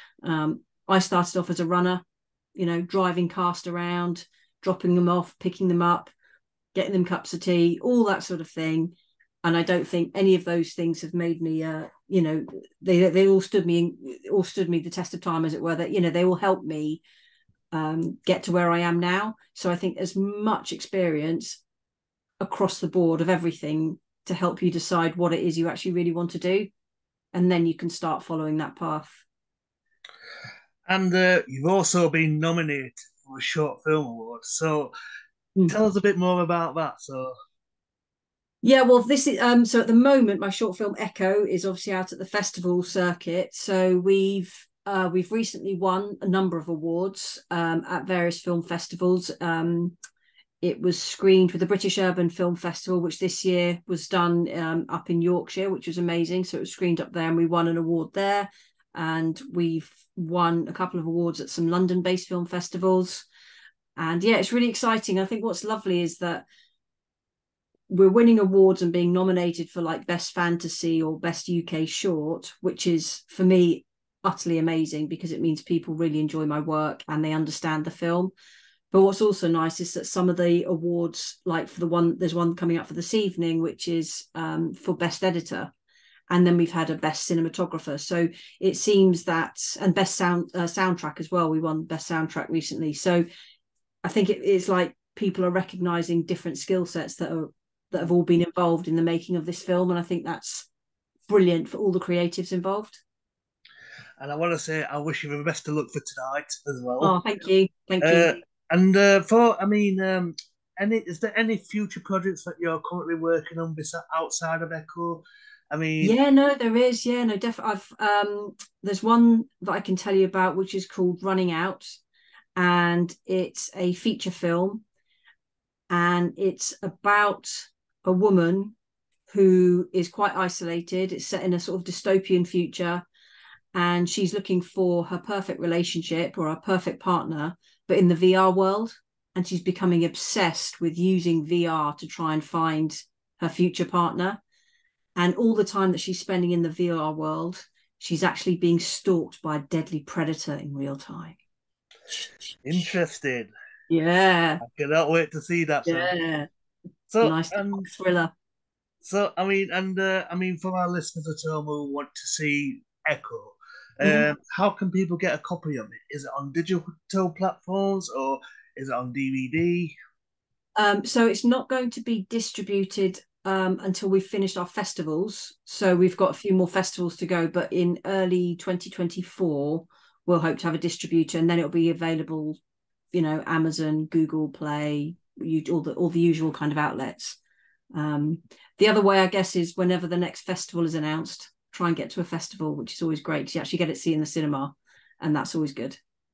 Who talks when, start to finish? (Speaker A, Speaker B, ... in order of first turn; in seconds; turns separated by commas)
Speaker A: 0.2-2.0, Speaker A: 2.6-6.1, Speaker A: 6.7-17.0, Speaker A: 17.7-21.6, Speaker A: 22.4-26.7, Speaker A: 27.3-29.2, Speaker B: 30.9-34.9, Speaker B: 35.7-37.3, Speaker A: 38.6-50.0, Speaker A: 50.6-63.3, Speaker A: 64.0-66.5, Speaker A: 67.9-78.3, Speaker A: 78.9-85.7, Speaker A: 86.3-93.2, Speaker A: 94.0-100.7, Speaker A: 101.3-103.0, Speaker B: 104.2-107.2, Speaker A: 107.0-108.4, Speaker B: 108.0-116.2, Speaker A: 116.0-121.9, Speaker A: 122.6-124.8, Speaker A: 125.9-128.7, Speaker A: 129.3-133.1, Speaker A: 133.7-144.4, Speaker A: 145.2-151.4, Speaker B: 152.7-153.5, Speaker A: 153.9-154.6, Speaker B: 154.6-156.1, Speaker A: 155.9-156.5, Speaker B: 157.1-157.9, Speaker A: 157.2-158.3, Speaker B: 159.0-169.9, Speaker A: 164.0-164.3, Speaker A: 170.8-182.6, Speaker A: 183.1-187.4, Speaker A: 187.9-196.0